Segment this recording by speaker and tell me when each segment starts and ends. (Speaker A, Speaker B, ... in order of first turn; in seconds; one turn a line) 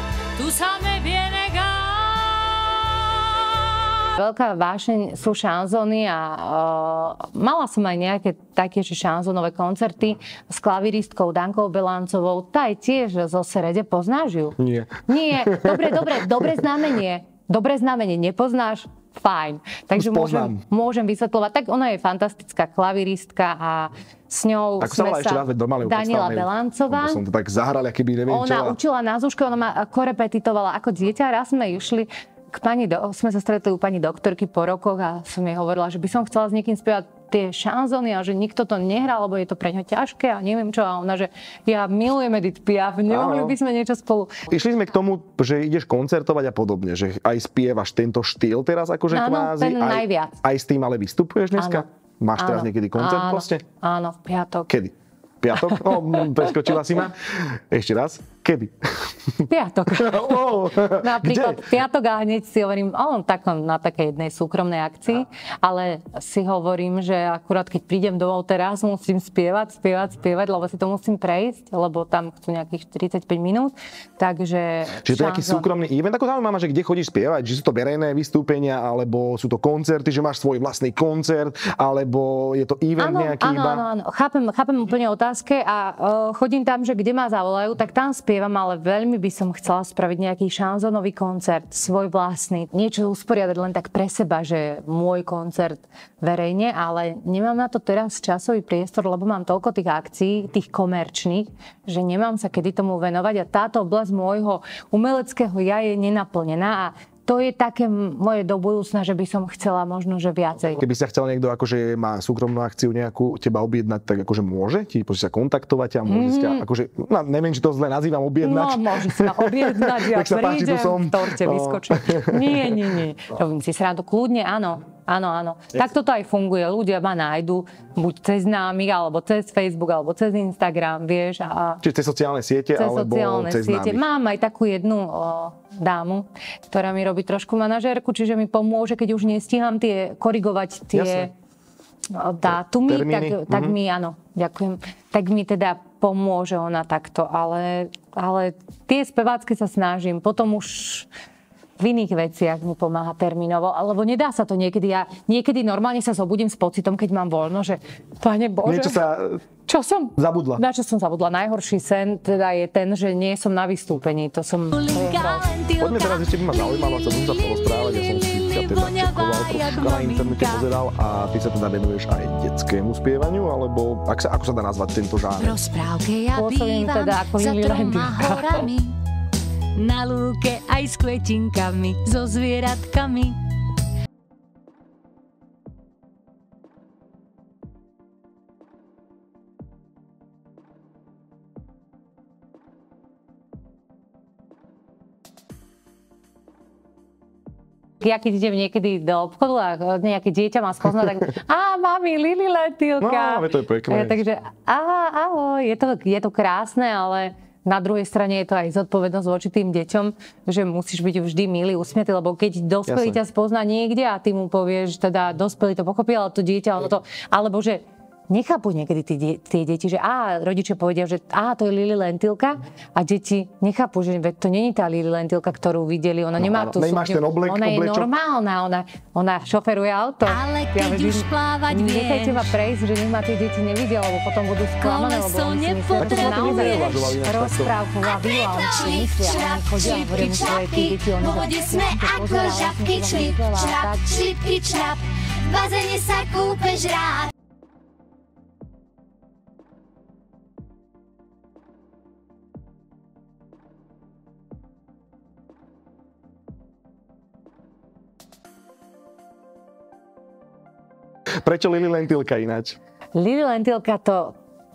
Speaker A: 0.3-3.9
Speaker B: 4.1-27.2
Speaker C: 14.6-16.7
Speaker C: 19.9-20.6
Speaker C: 24.8-28.8
Speaker B: 28.3-44.4
Speaker C: 43.1-43.5
Speaker C: 44.5-53.6
Speaker B: 49.1-50.4
Speaker B: 51.5-51.9
Speaker B: 52.4-54.7
Speaker C: 54.7-61.7
Speaker B: 55.6-56.5
Speaker B: 59.5-75.7
Speaker C: 75.0-83.8
Speaker B: 83.0-110.8
Speaker C: 110.8-122.9
Speaker B: 116.1-116.7
Speaker B: 118.4-131.8
Speaker C: 131.8-134.0
Speaker B: 132.7-141.3
Speaker C: 140.9-141.3
Speaker B: 142.1-151.1
Speaker C: 142.8-143.8
Speaker B: 151.8-159.0
Speaker C: 158.6-159.4
Speaker B: 159.7-165.5
Speaker C: 160.2-160.6
Speaker A: 164.7-170.7
Speaker C: 165.8-175.6
Speaker A: 175.3-178.9
Speaker B: 176.3-178.7
Speaker A: 179.7-183.4
Speaker B: 198.0-244.2
Speaker C: 203.0-204.2
Speaker C: 212.9-213.2
Speaker C: 226.4-228.1
Speaker A: 230.2-232.5
Speaker A: 234.8-237.0
Speaker C: 236.0-237.7
Speaker A: 238.2-247.3
Speaker C: 261.4-262.8
Speaker B: 263.1-264.3